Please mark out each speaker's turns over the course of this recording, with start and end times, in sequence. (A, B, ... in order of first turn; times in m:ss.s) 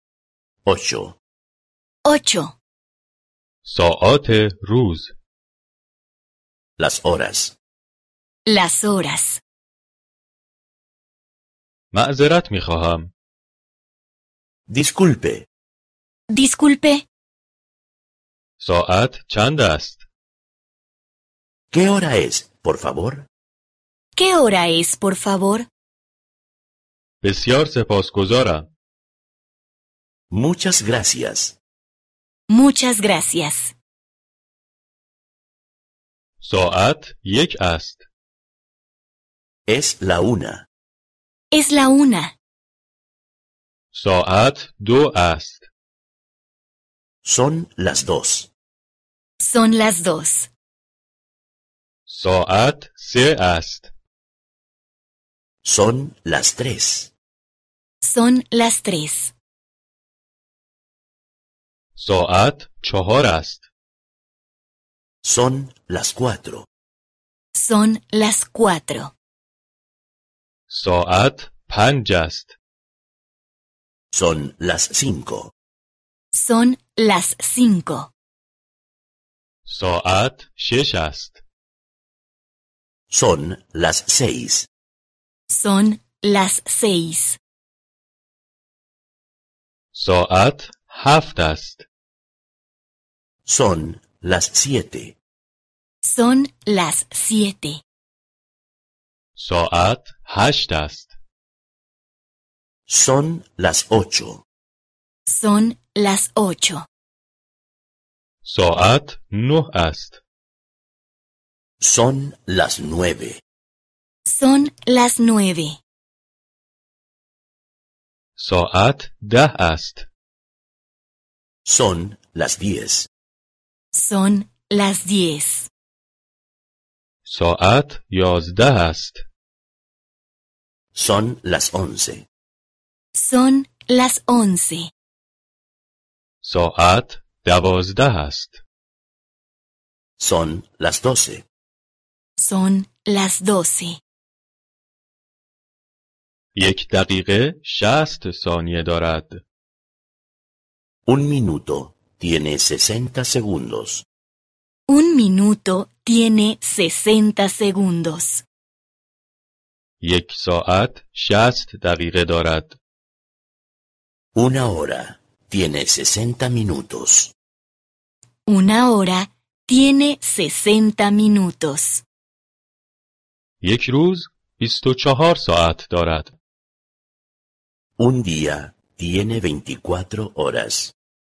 0:00.6-0:01.2 A
0:02.0-0:02.6 B
0:03.6-0:05.1 C
0:06.8-0:07.6 A
0:08.5-0:09.4 B
0:11.9-0:13.1 C
0:14.7-0:15.4 A
0:16.3-0:17.0 B
0:18.6-0:20.0 C
0:21.7-0:23.3 A
0:24.2-0:25.7 B
0:27.2-0:28.7 C
0:30.3-0:31.6 A
0:32.5-0:33.7 B
0:36.4-0:38.0 C
0:39.7-0:40.6 A
0:41.5-0:42.3 B
0:43.9-0:45.6 C
0:47.2-0:48.5 A
0:49.4-0:50.5 B
0:52.1-0:53.9 C
0:55.6-0:57.1 A
0:58.0-0:59.3 B
1:01.9-1:03.6 C
1:05.2-1:06.7 A
1:07.5-1:09.1 B
1:10.7-1:12.5 C
1:14.1-1:15.5 A
1:16.3-1:18.1 B
1:19.6-1:21.4 C
1:23.1-1:24.7 A
1:25.5-1:27.4 B
1:29.9-1:31.8 C
1:33.4-1:35.2 A
1:36.0-1:37.8 B
1:39.4-1:41.1 C
1:42.9-1:44.4 A
1:45.3-1:46.9 B
1:48.4-1:50.2 C
1:51.8-1:53.4 A
1:54.2-1:55.8 B
1:58.4-2:00.0 C
2:01.6-2:03.1 A
2:03.9-2:05.7 B
2:07.2-2:09.2 C
2:10.9-2:12.2 A
2:13.1-2:14.9 B
2:16.4-2:18.6 C
2:20.2-2:21.4 A
2:22.4-2:24.0 B
2:26.5-2:29.4 C
2:31.0-2:34.0 A
2:34.9-2:38.4 B
2:40.0-2:42.8 C
2:44.3-2:47.3 A
2:48.4-2:52.0 B
2:53.6-2:56.3 C
2:58.0-3:00.9 A